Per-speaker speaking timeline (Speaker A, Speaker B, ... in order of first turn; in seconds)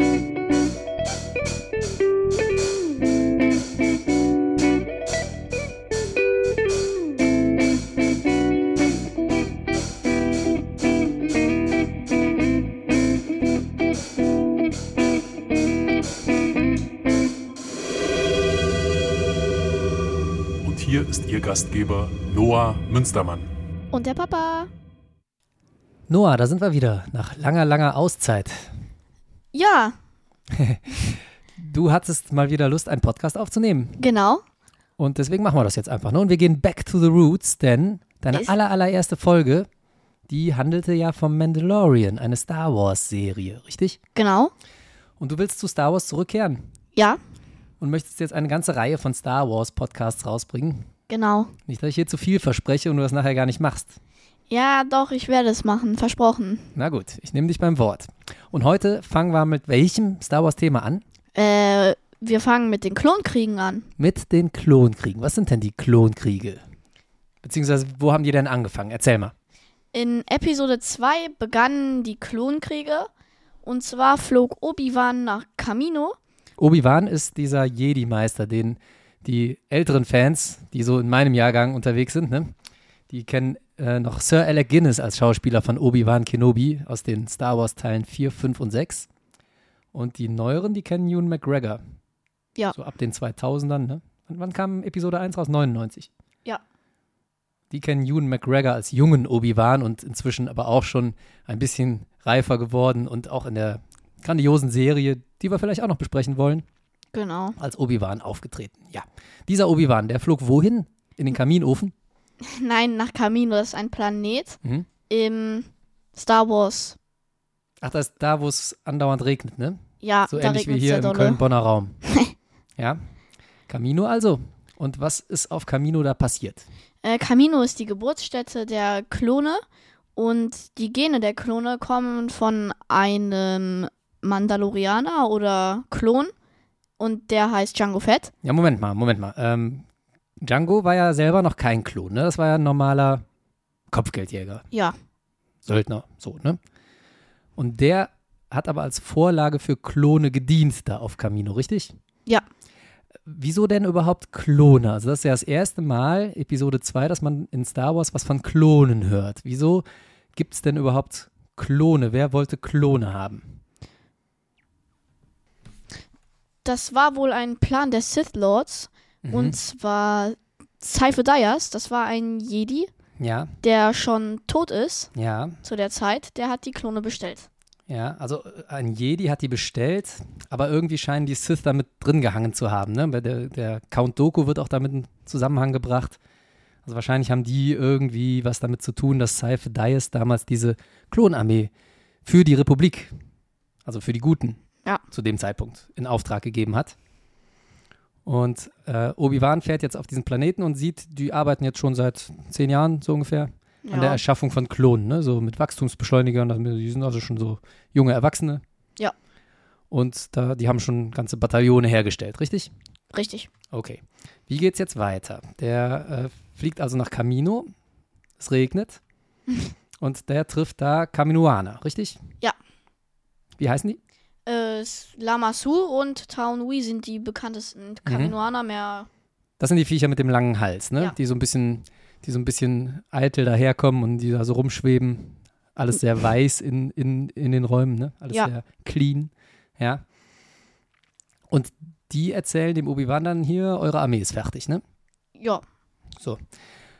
Speaker A: 20.6-23.5
Speaker B: 23.9-24.7, 29.5-29.9, 34.0-34.4, 44.1-44.5, 46.9-47.2, 51.1-51.5, 54.5-56.7, 61.3-63.9, 69.9-73.1, 73.6-76.1, 107.1-107.5, 112.4-117.0, 120.0-121.4, 122.0-122.3, 127.0-129.6, 130.2-136.3, 137.0-138.3, 166.6-172.9, 173.6-175.1, 175.6-177.5, 203.8-204.2, 213.1-213.5, 224.4-229.1
Speaker C: 26.1-28.7, 30.5-34.0, 35.0-39.7, 40.3-44.0, 45.2-46.6, 47.8-50.9, 51.7-54.0, 56.7-61.0, 64.0-66.6, 67.4-69.3, 76.6-82.5, 83.1-89.1, 89.9-91.8, 92.7-96.1, 97.7-106.6, 107.6-111.9, 117.8-122.0, 123.7-126.6, 138.4-139.8, 140.4-143.2, 143.9-144.6, 145.6-146.6, 147.6-151.9, 153.2-159.8, 160.3-163.6, 169.2-169.6, 173.2-173.5, 175.1-175.6, 177.9-186.2, 186.8-191.7, 192.2-193.1, 193.8-194.6, 195.1-196.9, 198.2-208.6, 209.9-212.7, 213.7-217.7, 218.4-219.0, 220.0-222.2, 223.6-224.0, 228.1-228.3, 229.6-240.0, 241.5-244.8